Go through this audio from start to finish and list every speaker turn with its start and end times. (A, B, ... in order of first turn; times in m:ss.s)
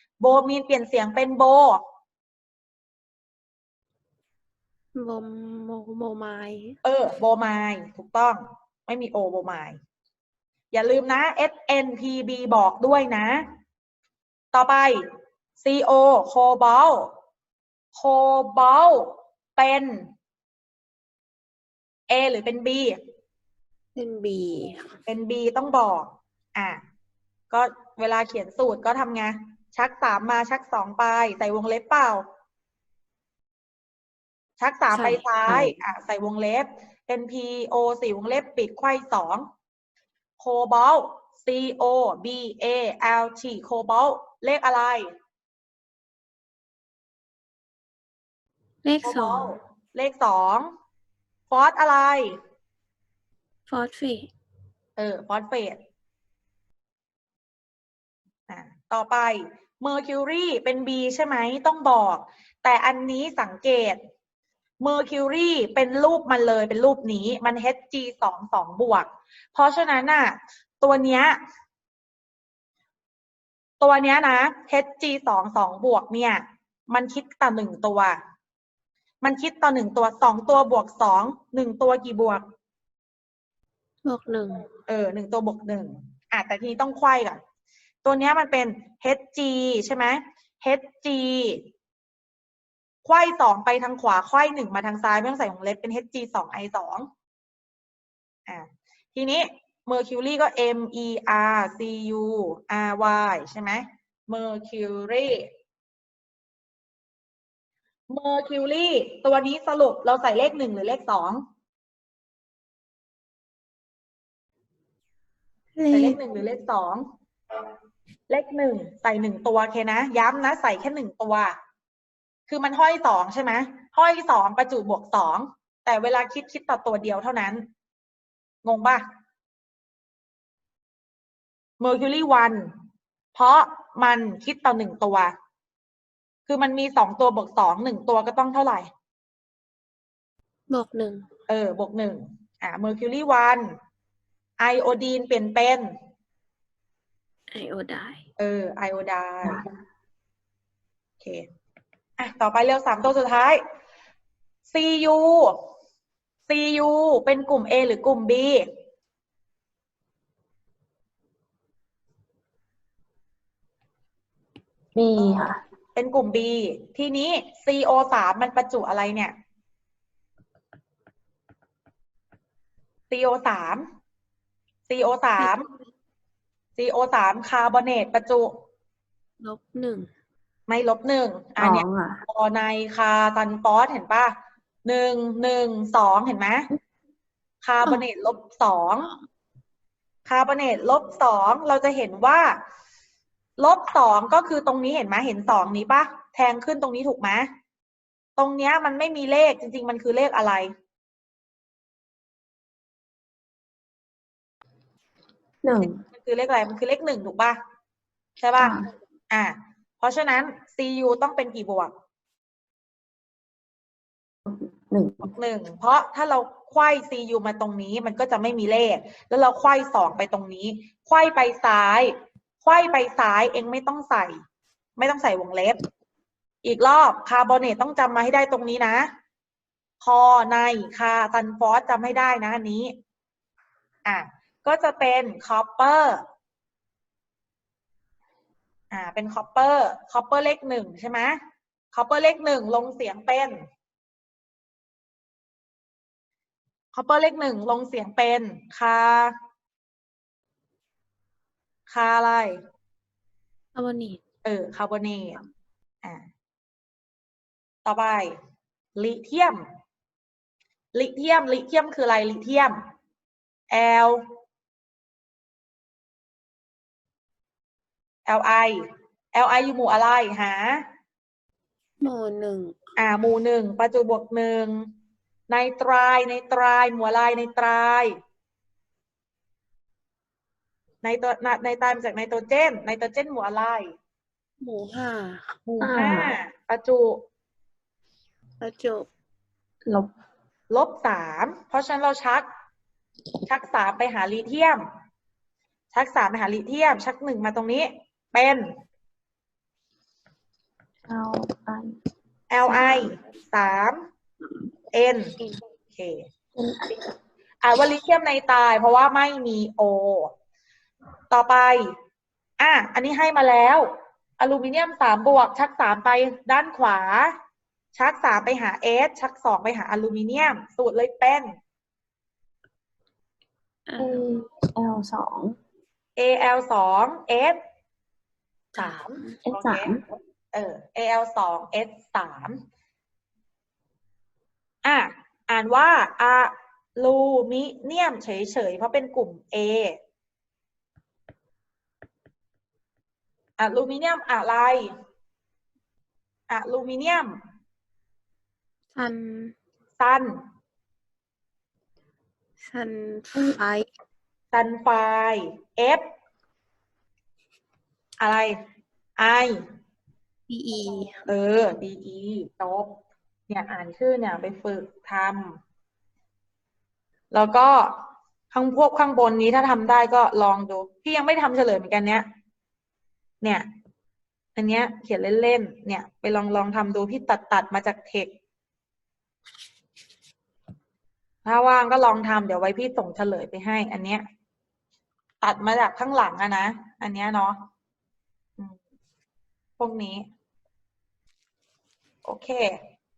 0:00.2-0:01.8 A
0:04.9-0:06.8 B
0:06.8-0:09.8 A
0:10.7-0:13.4 A
0:14.5-0:15.0 A
0:15.6-0:17.1 A
0:17.9-0:20.1 A
0:22.1-0:22.9 A
0:24.0-0:25.0 B
0:25.1-0:26.8 A
0:27.5-0:32.2 A
0:34.6-0:39.5 A
0:34.9-0:35.8 B
0:40.4-0:45.1 A
0:48.8-0:49.5 B
0:49.0-0:50.7 A
0:51.5-0:52.3 A
0:53.7-0:54.3 B
0:55.0-0:55.8 A
0:58.5-1:04.0 A
1:04.8-1:11.4 A
1:13.8-1:18.2 A
1:19.2-1:22.4 A
1:24.0-1:24.7 B
1:24.9-1:27.4 A
1:28.0-1:31.6 A
1:33.0-1:37.1 A
1:38.5-1:45.5 A
1:48.1-1:51.4 A
1:55.8-1:56.2 B
1:55.9-1:57.0 A
1:58.3-2:01.5 A
2:02.5-2:07.6 A
2:08.6-2:09.0 A
2:11.8-2:12.7 A
2:13.3-2:15.3 A
2:16.4-2:18.9 A
2:20.7-2:21.3 B
2:21.5-2:23.7 A
2:24.6-2:25.9 A
2:27.5-2:28.2 B
2:28.4-2:29.6 A
2:31.2-2:31.4 A
2:32.2-2:33.6 A
2:34.7-2:35.5 A
2:36.5-2:38.6 A
2:44.9-2:45.6 C
2:45.2-2:49.3 A
2:53.1-2:53.9 A
2:54.9-2:55.7 A
2:56.8-2:58.6 A
2:59.4-3:00.1 B
3:00.7-3:06.7 A
3:01.6-3:02.2 C
3:07.6-3:09.1 A
3:10.2-3:12.6 A
3:13.6-3:17.5 A
3:18.4-3:20.7 A
3:25.6-3:26.0 C
3:25.8-3:27.6 A
3:28.4-3:28.8 A
3:28.6-3:28.9 C
3:29.3-3:31.9 A
3:34.5-3:35.3 C
3:35.3-3:44.4 A
3:45.0-3:45.8 A
3:46.6-3:49.1 A
3:50.0-3:52.9 A
3:54.0-3:56.2 A
3:58.9-4:01.4 A
4:01.9-4:03.6 A
4:06.9-4:09.3 A
4:11.9-4:12.6 A
4:13.8-4:14.2 B
4:14.4-4:15.4 A
4:17.8-4:18.3 A
4:19.0-4:19.6 A
4:20.9-4:22.8 A
4:23.7-4:24.2 A
4:28.2-4:28.8 A
4:29.3-4:30.8 A
4:32.0-4:32.8 B
4:33.0-4:34.9 A
4:35.5-4:38.1 A
4:41.0-4:43.9 A
4:44.6-4:45.6 B
4:45.6-4:47.2 A
4:45.8-4:46.3 C
4:48.6-4:49.1 B
4:50.7-4:52.4 A
4:53.5-4:54.8 A
4:55.9-4:58.7 A
5:01.0-5:02.0 C
5:02.5-5:04.0 A
5:02.6-5:03.0 C
5:04.9-5:05.4 A
5:05.9-5:06.2 A
5:06.6-5:07.0 C
5:07.6-5:10.3 A
5:11.3-5:11.8 A
5:12.6-5:17.3 A
5:17.9-5:21.5 A
5:23.9-5:24.2 B
5:24.0-5:25.6 C
5:26.2-5:27.6 A
5:28.7-5:29.4 B
5:28.8-5:30.0 A
5:29.4-5:30.0 C
5:30.5-5:32.6 A
5:34.8-5:40.0 A
5:43.6-5:44.9 A
5:46.5-5:47.4 A
5:48.9-5:49.5 B
5:50.0-5:50.3 A
5:52.6-5:53.9 B
5:54.5-5:56.1 A
5:58.2-5:58.6 A
5:59.2-5:59.6 A
6:00.5-6:01.3 B
6:01.3-6:03.0 A
6:03.5-6:05.6 A
6:07.3-6:08.0 A
6:08.5-6:12.2 A
6:14.6-6:18.3 A
6:21.4-6:24.2 A
6:25.4-6:27.6 A
6:29.8-6:30.2 A
6:32.2-6:32.7 A